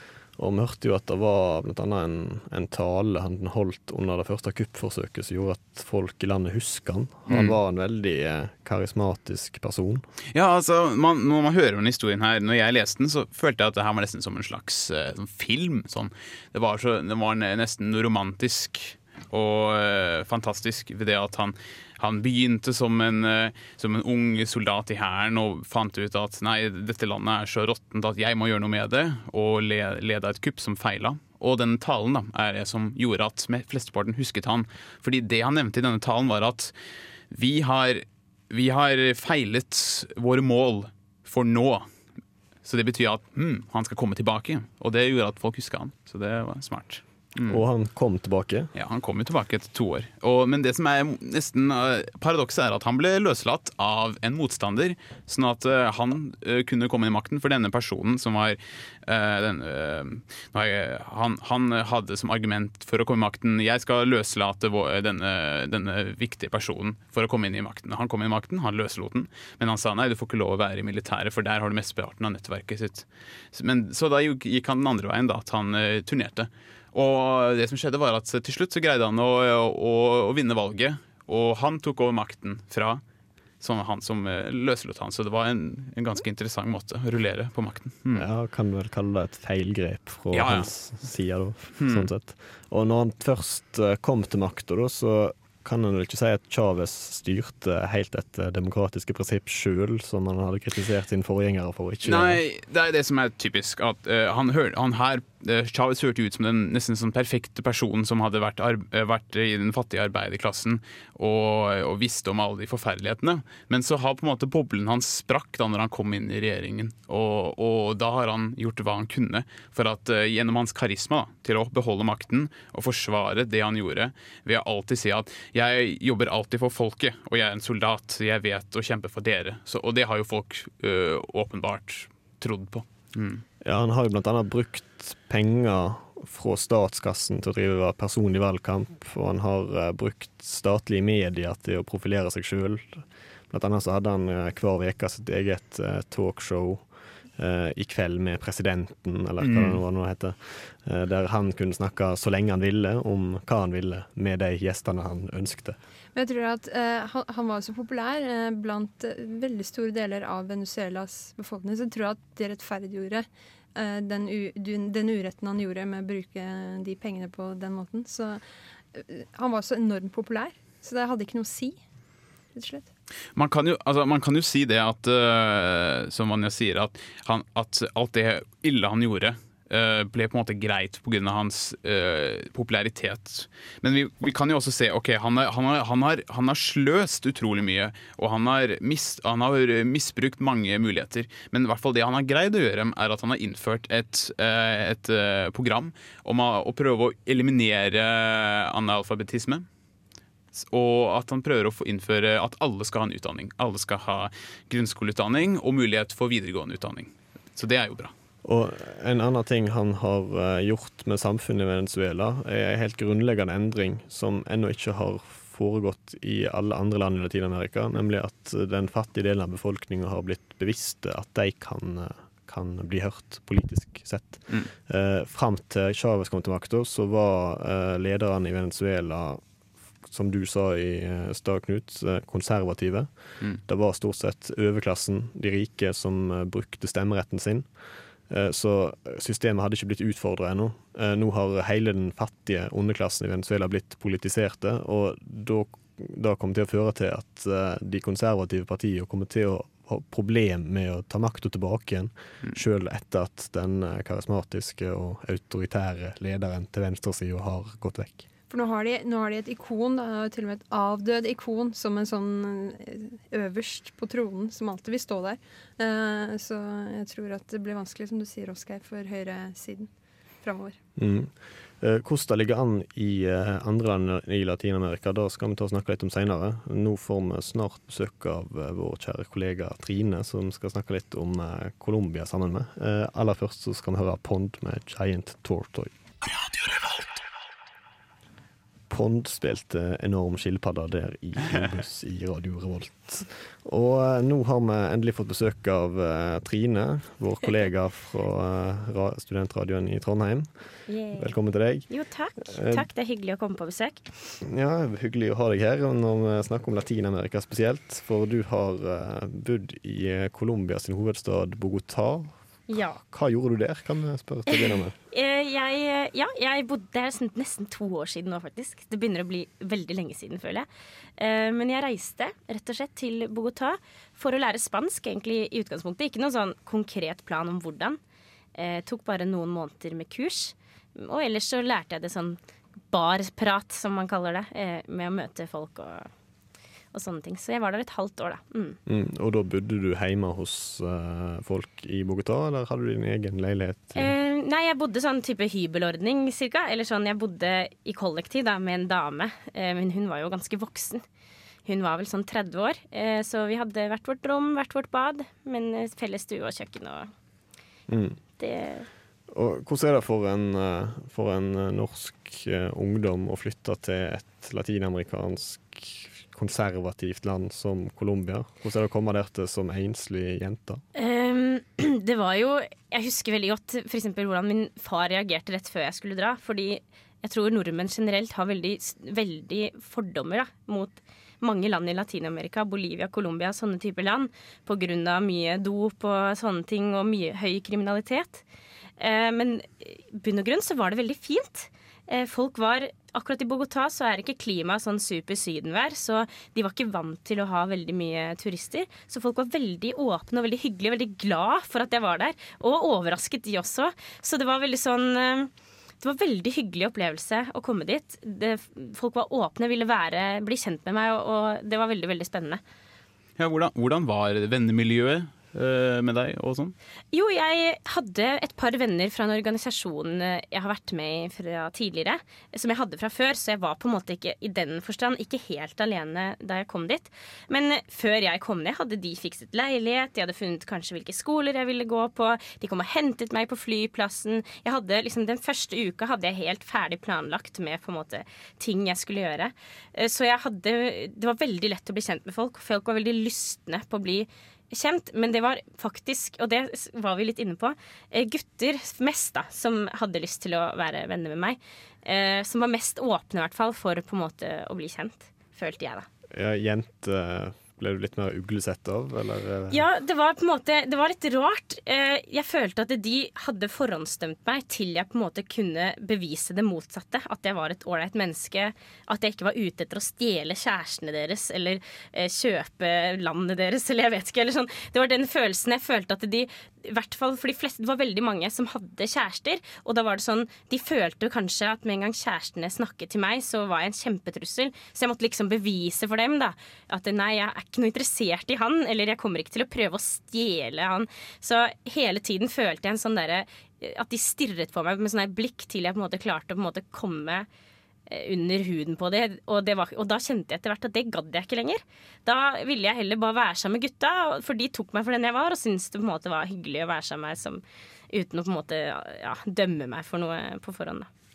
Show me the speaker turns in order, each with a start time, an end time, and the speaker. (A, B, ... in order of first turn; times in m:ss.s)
0:00.4-0:10.0 A
0:07.3-0:07.6 B
0:10.3-0:36.7 B
0:37.3-0:41.9 B
0:42.6-0:47.6 B
0:47.5-0:48.7 A
0:48.7-1:23.0 B
1:23.6-1:28.2 B
1:28.1-1:42.4 A
1:30.3-1:30.7 B
1:31.8-1:32.1 B
1:42.0-2:13.4 B
2:13.6-2:35.8 A
2:29.4-2:29.8 B
2:36.1-2:48.4 C
2:48.9-2:51.8 C
2:52.5-2:52.9 C
2:53.3-3:19.6 B
3:20.5-3:28.1 B
3:28.4-3:49.4 A
3:50.0-4:18.2 A
4:18.5-4:29.9 C
4:30.4-4:30.8 C
4:31.0-4:45.9 A
4:48.9-5:02.9 A
5:00.9-5:01.3 D
5:01.9-5:04.1 D
5:04.4-5:12.3 A
5:12.7-5:13.0 D
5:13.0-5:15.0 A
5:14.5-5:20.7 D
5:21.2-5:28.0 D
5:28.5-5:32.4 D
5:32.9-5:36.1 D
5:36.9-5:38.8 D
5:38.8-5:44.1 A
5:43.9-5:51.0 D
5:51.6-5:57.1 D
5:57.9-5:58.2 A
5:58.4-5:58.9 D
5:59.3-6:10.8 A
6:11.0-6:28.4 D
6:29.0-6:52.6 D
6:53.4-6:56.7 B
6:57.1-7:36.1 D
7:36.3-7:39.8 A
7:39.7-8:17.5 D
8:18.1-8:31.1 D